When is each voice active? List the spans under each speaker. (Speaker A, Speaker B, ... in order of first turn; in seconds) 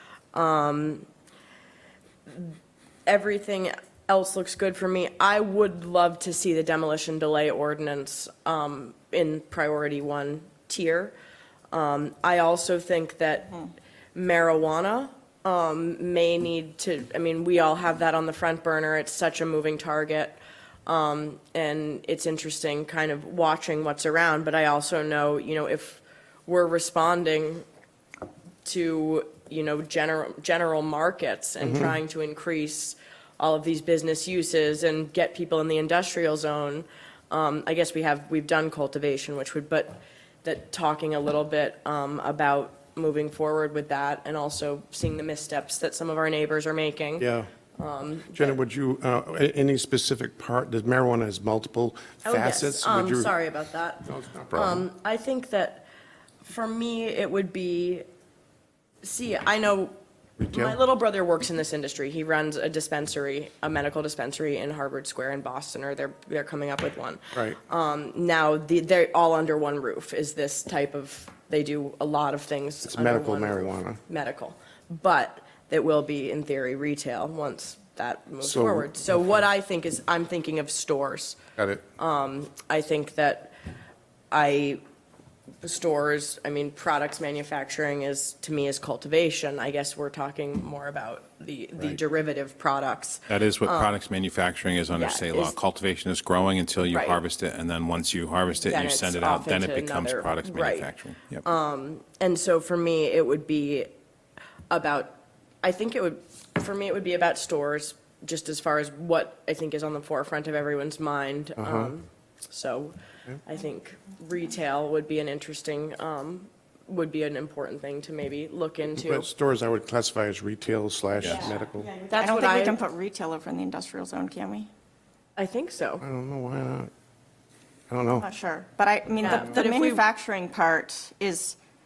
Speaker A: 0.3-1.1, 2.3-11.1, 11.7-13.6, 14.2-27.7, 28.6-48.6, 52.2-55.9, 56.4-58.0, 59.0-59.9, 60.4-81.4, 82.0-83.5, 84.3-84.8, 85.6-93.9, 94.9-95.5, 96.8-97.2, 98.6-100.9, 101.4-103.9, 104.7-119.3, 122.1-122.8, 125.4-126.0, 129.2-130.0
Speaker B: 31.6-32.0, 47.2-47.5, 48.3-53.3, 54.1-54.9, 60.4-60.8, 67.3-67.6, 72.9-74.0, 78.4-79.4, 81.6-81.8, 111.6-112.0, 118.9-121.9, 126.0-126.9, 127.9-128.3, 129.3-129.6
Speaker C: 93.3-101.4, 121.2-121.5
Speaker D: 121.4-124.7, 128.2-131.6